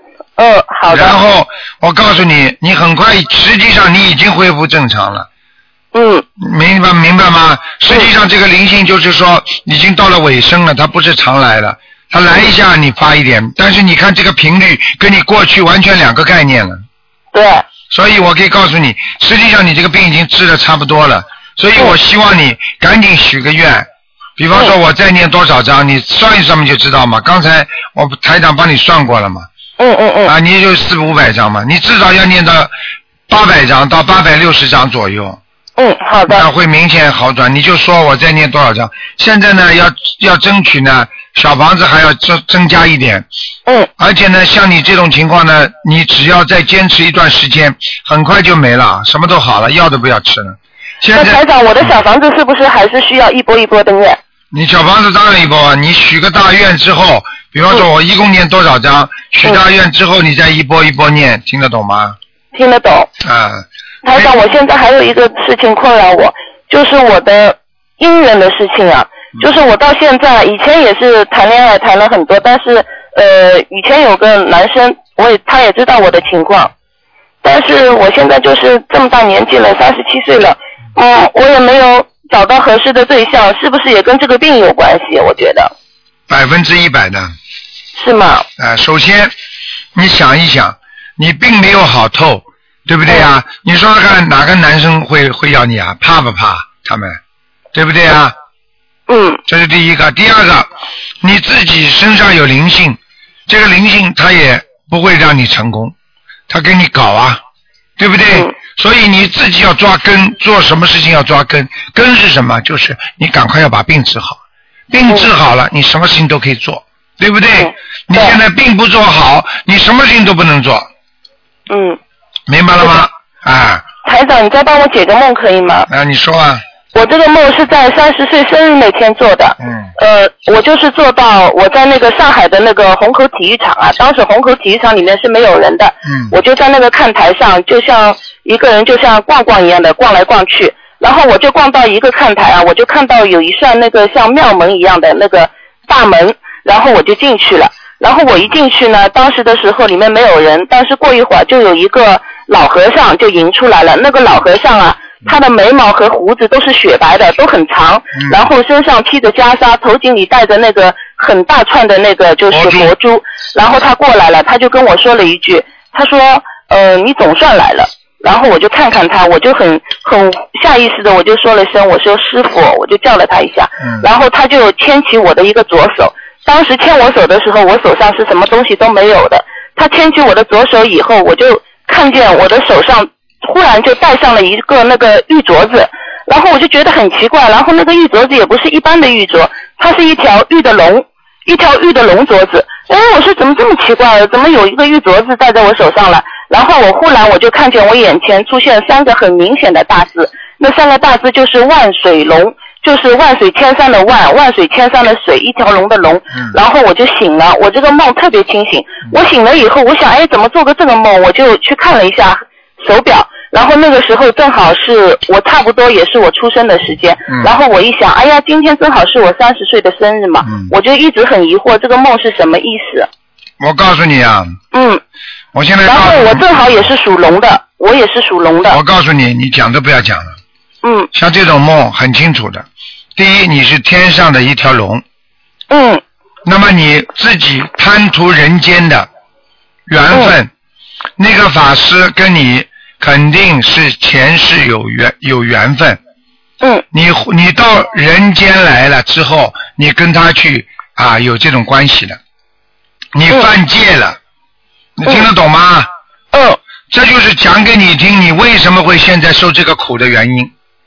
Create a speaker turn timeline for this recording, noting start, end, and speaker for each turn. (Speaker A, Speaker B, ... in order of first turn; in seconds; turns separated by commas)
Speaker A: 0.4-1.1, Speaker B: 0.9-5.3, Speaker A: 5.9-6.2, Speaker B: 6.4-16.8, Speaker A: 17.3-17.6, Speaker B: 17.9-23.9, Speaker B: 24.4-29.5, Speaker A: 29.8-30.3, Speaker B: 30.2-32.7, Speaker B: 33.3-35.4, Speaker A: 35.8-36.5, Speaker B: 36.3-43.2, Speaker B: 44.0-51.9, Speaker A: 51.1-54.2, Speaker B: 54.5-62.2, Speaker A: 62.5-63.1, Speaker B: 63.2-64.3, Speaker A: 64.0-76.7, Speaker A: 77.4-85.7, Speaker B: 86.3-87.3, Speaker A: 88.0-88.5, Speaker B: 88.6-89.3, Speaker B: 89.9-97.2, Speaker B: 97.7-98.3, Speaker A: 99.1-99.4, Speaker B: 99.5-100.7, Speaker B: 101.2-105.9, Speaker B: 106.5-107.4, Speaker B: 108.0-120.9, Speaker A: 117.6-118.4, Speaker A: 121.7-122.0, Speaker B: 122.5-123.8, Speaker A: 124.0-125.9, Speaker B: 125.9-126.6, Speaker A: 126.9-223.1, Speaker B: 129.6-129.9, Speaker B: 136.1-136.3, Speaker B: 158.2-158.4, Speaker B: 162.5-162.9, Speaker B: 220.4-220.7, Speaker B: 223.6-224.6, Speaker A: 224.7-225.0, Speaker B: 225.5-226.8, Speaker A: 225.8-228.8, Speaker B: 228.7-230.4, Speaker A: 230.8-231.1, Speaker B: 231.1-235.0, Speaker A: 235.7-236.0, Speaker B: 236.4-239.1, Speaker B: 239.9-240.5, Speaker B: 241.2-246.0, Speaker B: 246.9-252.2, Speaker B: 253.1-254.2, Speaker B: 255.0-255.9, Speaker A: 256.3-256.6, Speaker B: 256.9-260.5